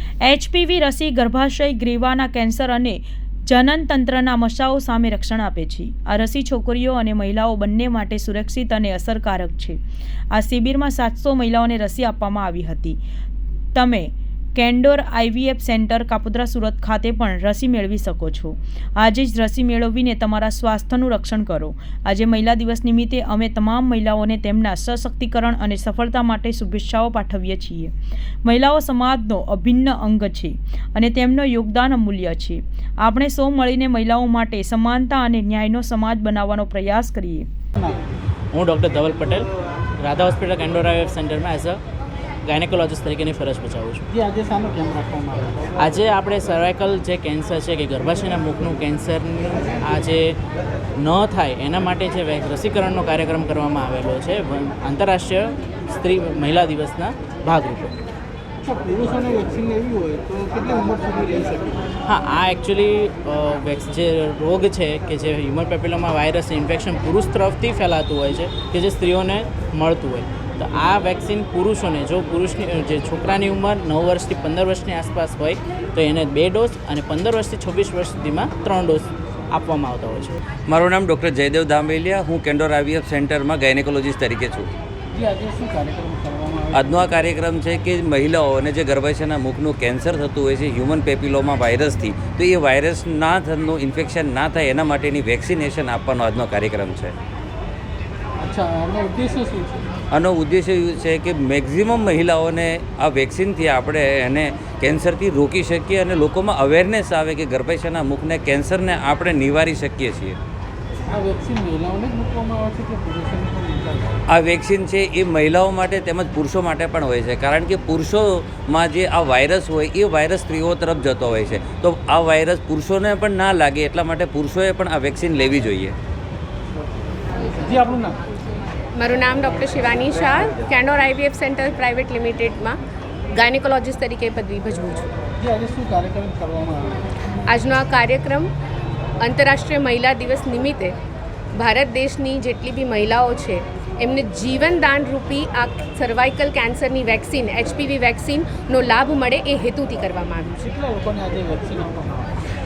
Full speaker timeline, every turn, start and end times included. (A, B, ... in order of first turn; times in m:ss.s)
0:00.2-0:09.8 A
0:10.3-0:13.0 A
0:13.7-0:27.9 A
0:28.4-0:37.5 A
0:38.5-0:39.5 B
0:40.0-0:41.8 B
0:42.4-0:44.0 B
0:44.1-0:45.8 C
0:45.8-0:50.4 B
0:51.0-0:58.0 B
0:58.6-1:01.8 C
1:02.0-1:20.4 B
1:20.7-1:24.7 D
1:25.1-1:27.0 C
1:26.8-1:37.1 D
1:38.4-1:39.9 C
1:40.1-1:50.4 D
1:51.1-1:54.2 C
1:54.3-2:05.9 D
2:07.5-2:08.2 C
2:09.0-2:12.8 E
2:13.3-2:15.1 E
2:15.4-2:17.1 C
2:17.5-2:18.5 E
2:19.2-2:20.9 E
2:21.6-2:30.6 E
2:30.5-2:32.4 C